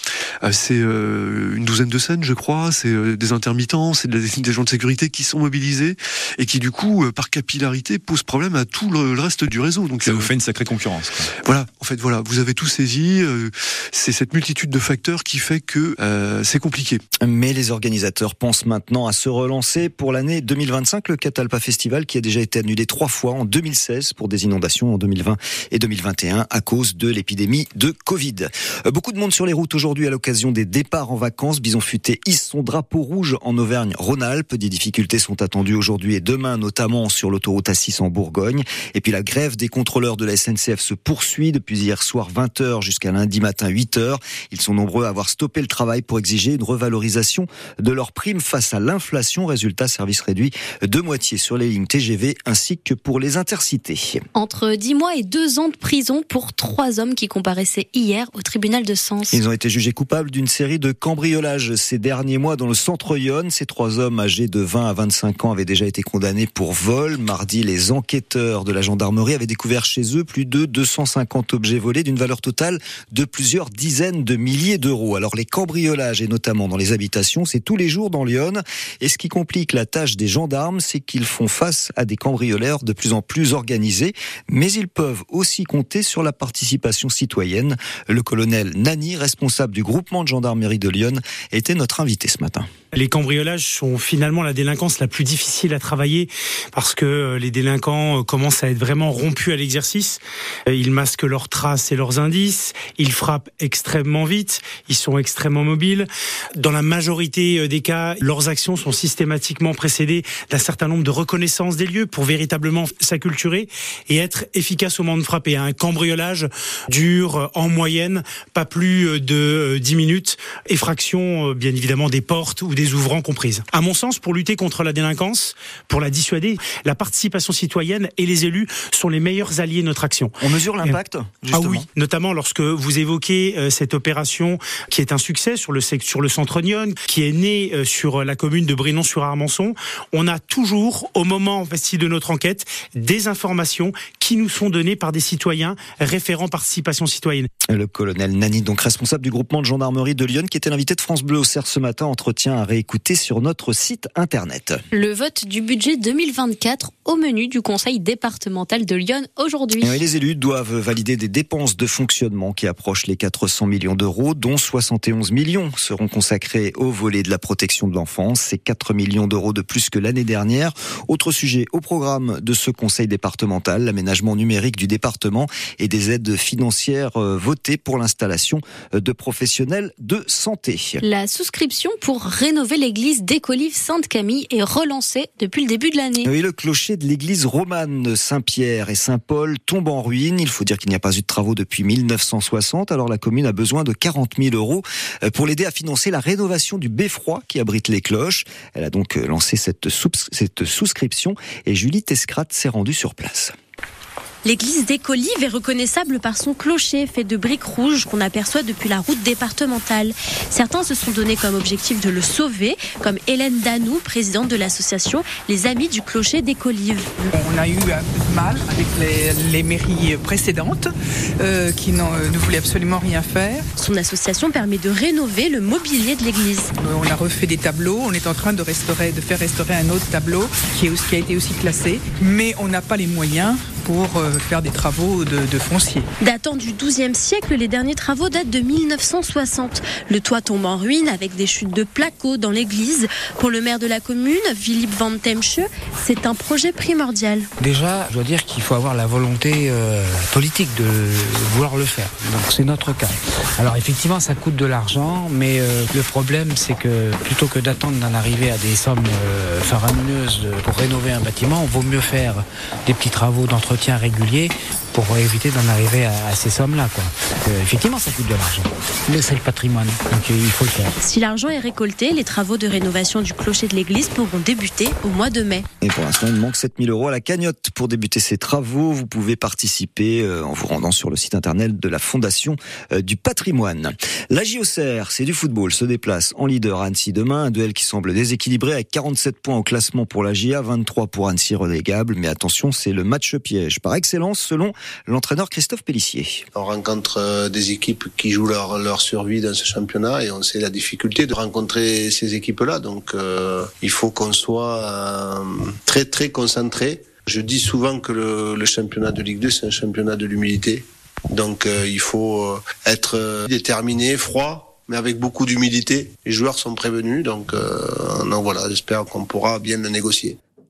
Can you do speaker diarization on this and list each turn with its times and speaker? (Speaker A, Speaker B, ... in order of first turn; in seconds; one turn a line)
Speaker A: 0.4-17.0
Speaker B: 17.2-54.2
Speaker C: 54.4-59.1
Speaker B: 59.3-92.7
Speaker D: 92.9-131.0
Speaker B: 130.4-131.9
Speaker D: 131.5-147.5
Speaker B: 147.7-154.8
Speaker C: 155.0-159.9
Speaker B: 159.8-181.0
Speaker C: 181.1-186.1
Speaker B: 186.2-203.5
Speaker E: 204.4-217.1
Speaker F: 217.2-223.7
Speaker E: 223.8-226.7
Speaker F: 226.8-236.1
Speaker E: 236.2-247.5
Speaker G: 247.6-270.9
Speaker E: 271.0-275.6
Speaker B: 275.8-296.4
Speaker H: 296.5-320.4